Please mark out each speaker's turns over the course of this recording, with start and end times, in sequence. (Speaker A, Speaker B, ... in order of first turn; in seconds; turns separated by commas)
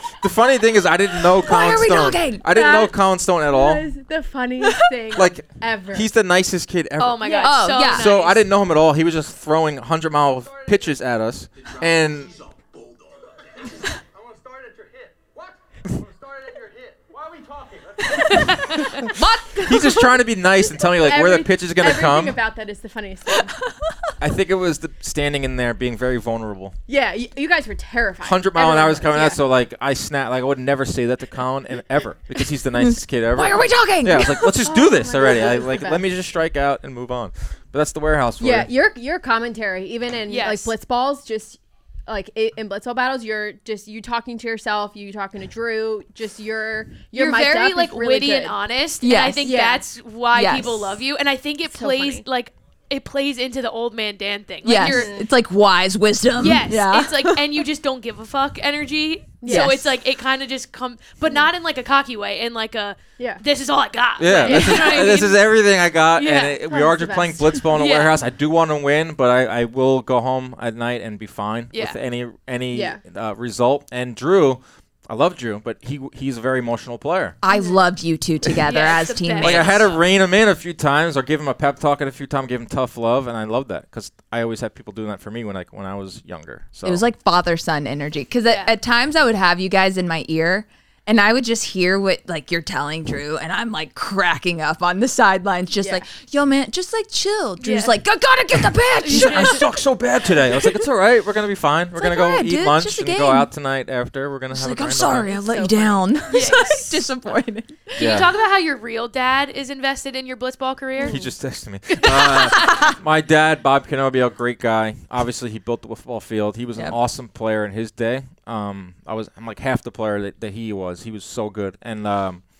Speaker A: 0.2-3.9, Speaker B: 1.4-2.5, Speaker C: 2.4-6.1, Speaker A: 5.1-12.4, Speaker D: 7.0-8.4, Speaker C: 7.2-7.7, Speaker B: 7.4-8.1, Speaker E: 10.4-10.9, Speaker E: 11.6-19.1, Speaker B: 19.0-20.1, Speaker A: 19.6-22.4, Speaker C: 20.8-23.6, Speaker B: 23.4-24.1, Speaker A: 24.2-26.8, Speaker C: 26.9-29.4, Speaker A: 28.2-38.7, Speaker B: 32.8-34.6, Speaker C: 34.6-36.0, Speaker C: 38.4-48.6, Speaker D: 40.3-40.7, Speaker D: 47.1-55.2, Speaker B: 49.0-49.6, Speaker C: 49.4-49.8, Speaker B: 50.3-50.9, Speaker C: 51.7-52.2, Speaker B: 54.6-57.6, Speaker C: 54.7-55.3, Speaker D: 56.4-65.4, Speaker C: 59.4-59.7, Speaker B: 59.5-59.9, Speaker A: 64.2-77.4, Speaker C: 64.4-65.1, Speaker D: 66.2-66.6, Speaker C: 66.7-67.6, Speaker D: 67.7-68.1, Speaker D: 71.7-72.0, Speaker C: 72.7-73.0, Speaker B: 77.4-79.9, Speaker C: 77.5-77.8, Speaker D: 78.6-80.0, Speaker A: 79.4-87.0, Speaker B: 86.8-99.7, Speaker D: 88.5-88.7, Speaker C: 95.8-96.0, Speaker D: 97.6-97.9, Speaker D: 99.0-99.7, Speaker A: 99.1-105.3, Speaker B: 102.0-103.5, Speaker B: 104.5-107.8, Speaker C: 105.3-106.7, Speaker D: 106.3-107.0, Speaker D: 107.9-111.3, Speaker A: 108.0-108.3, Speaker A: 111.0-122.4, Speaker D: 111.9-112.7, Speaker B: 112.5-112.9